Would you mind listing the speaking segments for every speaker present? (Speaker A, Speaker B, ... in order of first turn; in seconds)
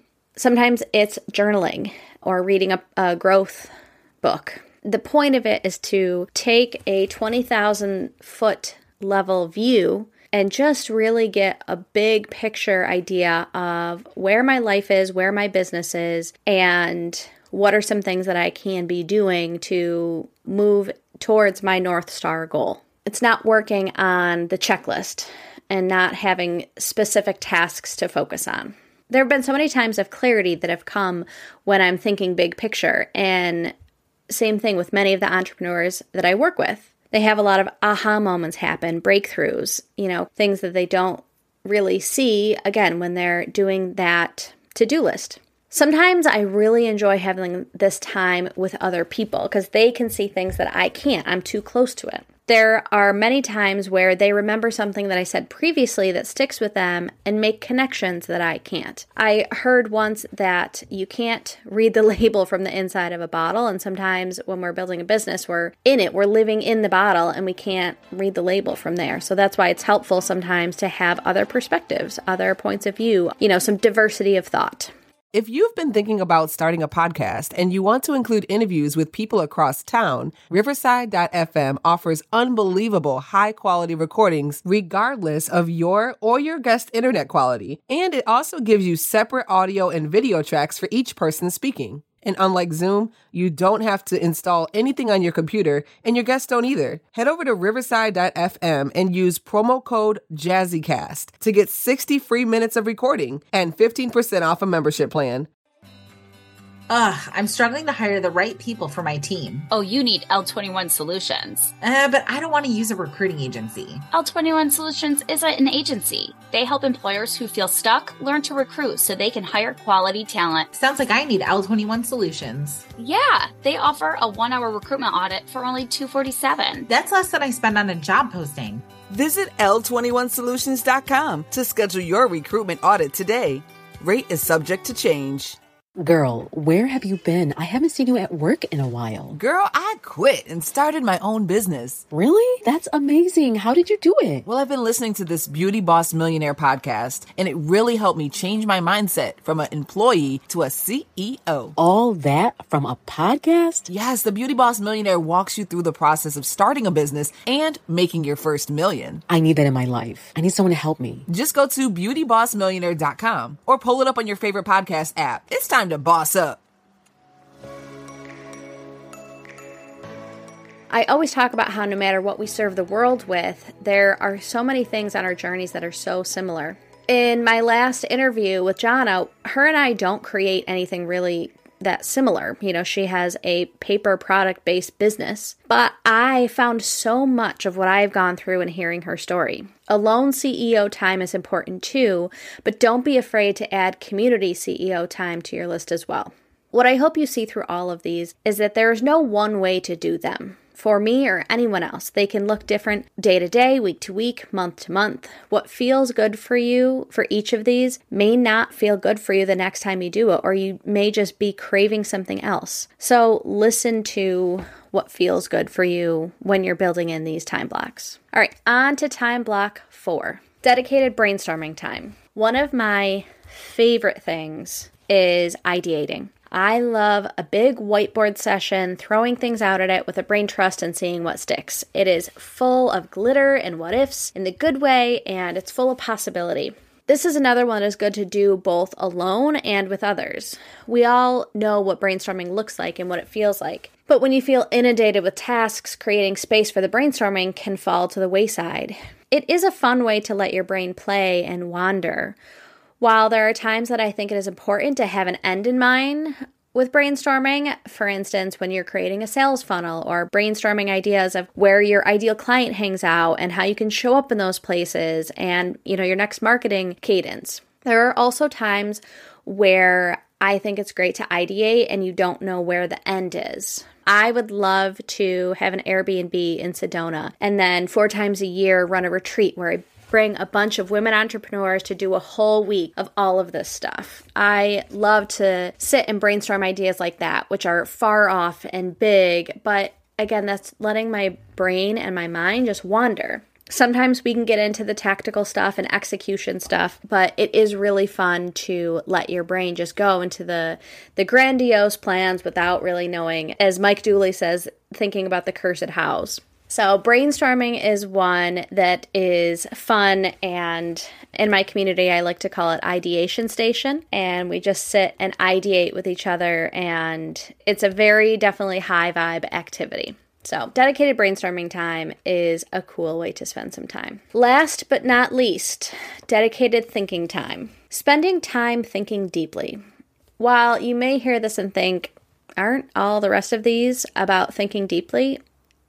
Speaker A: 0.4-33.7, 34.3-74.9, 170.9-252.4, 253.0-329.8, 330.4-335.4
Speaker B: 75.3-105.5
Speaker C: 106.9-109.7, 111.8-114.0, 120.8-122.8, 126.9-128.8
Speaker D: 109.7-111.7, 114.1-120.7, 123.0-126.9
Speaker E: 129.1-135.6, 139.3-142.1, 144.5-151.8, 153.9-159.2, 161.3-166.6
Speaker F: 136.0-139.4, 142.1-144.5, 151.8-153.9, 159.3-161.3